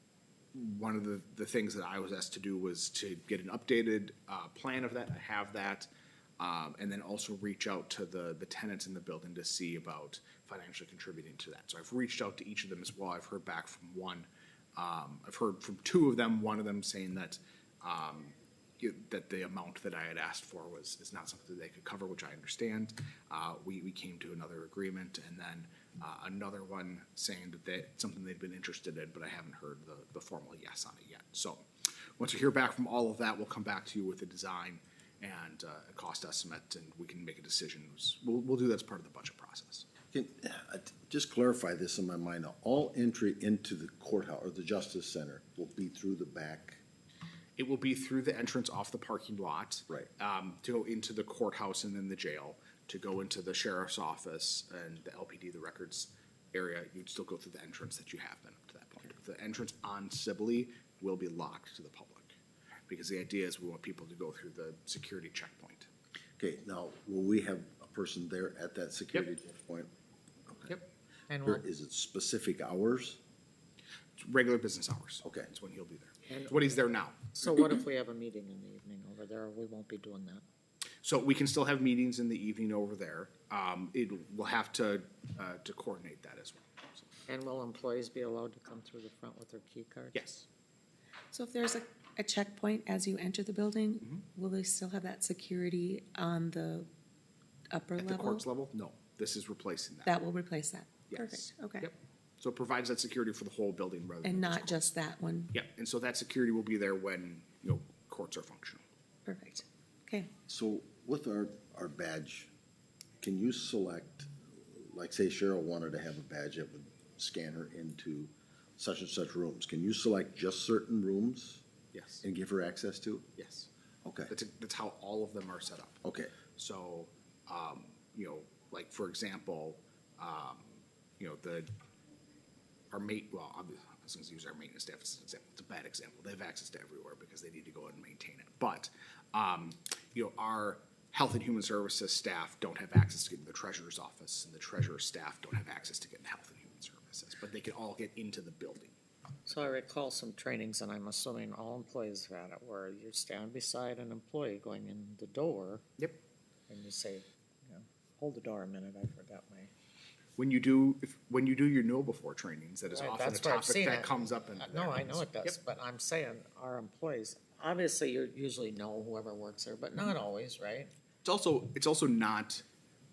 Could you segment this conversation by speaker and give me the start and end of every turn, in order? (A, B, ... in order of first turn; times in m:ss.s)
0:00.5-0:31.6 A
0:32.2-0:39.9 A
0:40.1-0:46.8 B
0:47.6-1:02.4 A
1:02.9-1:05.9 A
1:06.4-1:09.9 B
1:10.5-1:10.8 B
1:11.3-1:11.6 C
1:11.4-1:13.2 B
1:14.2-1:17.6 A
1:15.2-1:15.5 B
1:16.3-1:16.7 C
1:17.3-1:20.4 C
1:21.0-1:27.1 A
1:27.3-1:30.2 C
1:30.1-1:30.4 A
1:31.3-1:36.9 D
1:37.7-1:38.4 D
1:38.0-1:40.2 A
1:40.0-1:41.9 D
1:41.1-1:44.9 A
1:44.2-1:45.5 D
1:45.5-1:48.8 A
1:49.3-1:50.3 D
1:50.5-1:52.5 B
1:53.2-2:01.6 B
2:01.9-2:02.2 A
2:02.2-2:03.3 B
2:03.4-2:03.7 A
2:04.0-2:04.3 B
2:04.3-2:11.7 A
2:06.0-2:06.3 B
2:12.9-2:29.0 A
2:29.4-2:35.9 C
2:36.7-2:39.7 C
2:40.4-2:45.5 A
2:42.9-2:50.9 C
2:51.2-2:52.6 A